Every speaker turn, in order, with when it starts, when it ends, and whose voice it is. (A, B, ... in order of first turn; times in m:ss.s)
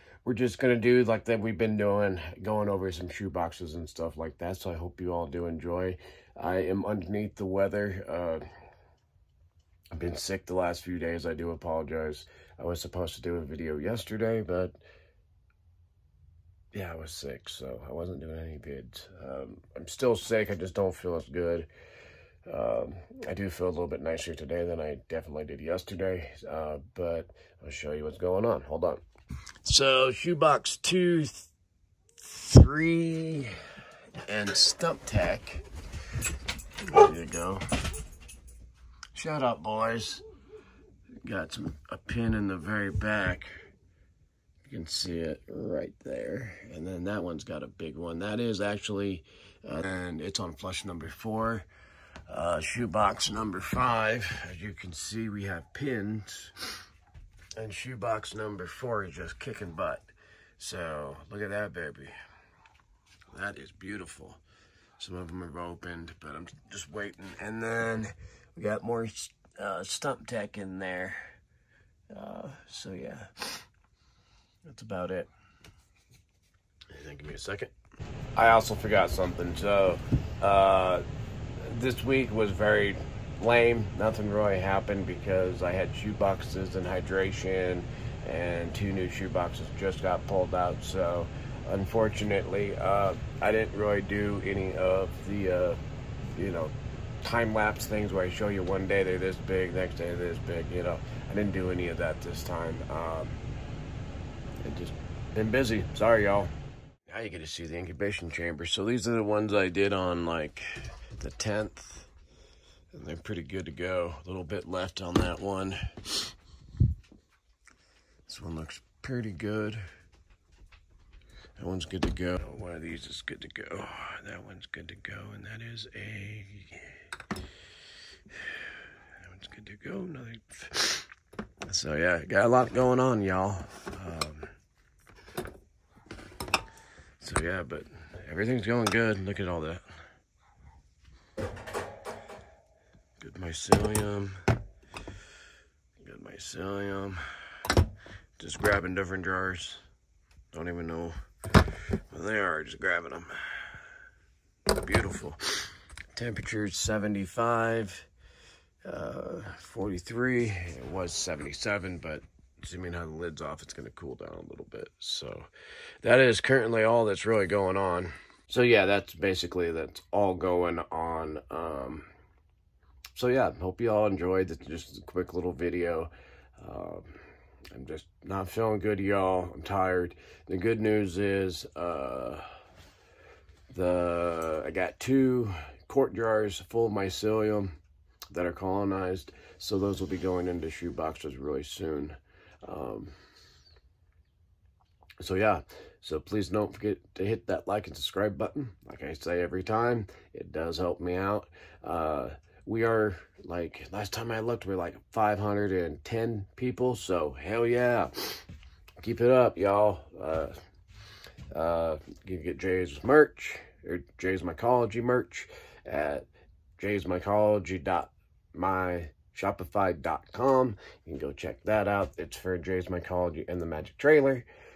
0:00.2-0:08.4 A
0:09.9-0:14.8 A
0:16.7-0:21.7 A
0:22.4-0:29.0 A
0:29.6-0:31.5 A
0:32.2-0:33.5 A
0:34.2-0:35.6 A
0:36.8-0:37.6 A
0:39.1-0:40.2 A
0:41.2-0:43.5 A
0:44.6-0:51.7 A
0:52.3-0:56.5 A
0:57.6-1:02.1 A
1:03.3-1:04.4 A
1:05.0-1:11.3 A
1:12.1-1:13.6 A
1:14.6-1:15.3 A
1:16.9-1:17.7 A
1:18.4-1:21.0 A
1:21.6-1:35.8 A
1:36.3-1:43.4 A
1:44.6-1:46.5 A
1:47.1-1:52.1 A
1:52.9-1:56.3 A
1:58.2-1:59.8 A
2:01.6-2:07.0 A
2:08.3-2:08.6 A
2:09.2-2:11.1 A
2:11.6-2:14.5 A
2:17.2-2:19.8 A
2:23.2-2:24.4 A
2:26.0-2:27.2 A
2:28.4-2:29.8 A
2:30.5-2:31.2 A
2:31.7-2:33.8 A
2:34.7-2:38.1 A
2:38.8-2:45.5 A
2:46.0-2:52.1 A
2:53.1-2:57.1 A
2:57.7-3:02.4 A
3:03.7-3:07.7 A
3:08.3-3:13.1 A
3:15.2-3:28.4 A
3:29.0-3:30.5 A
3:31.5-3:36.2 A
3:36.8-3:44.5 A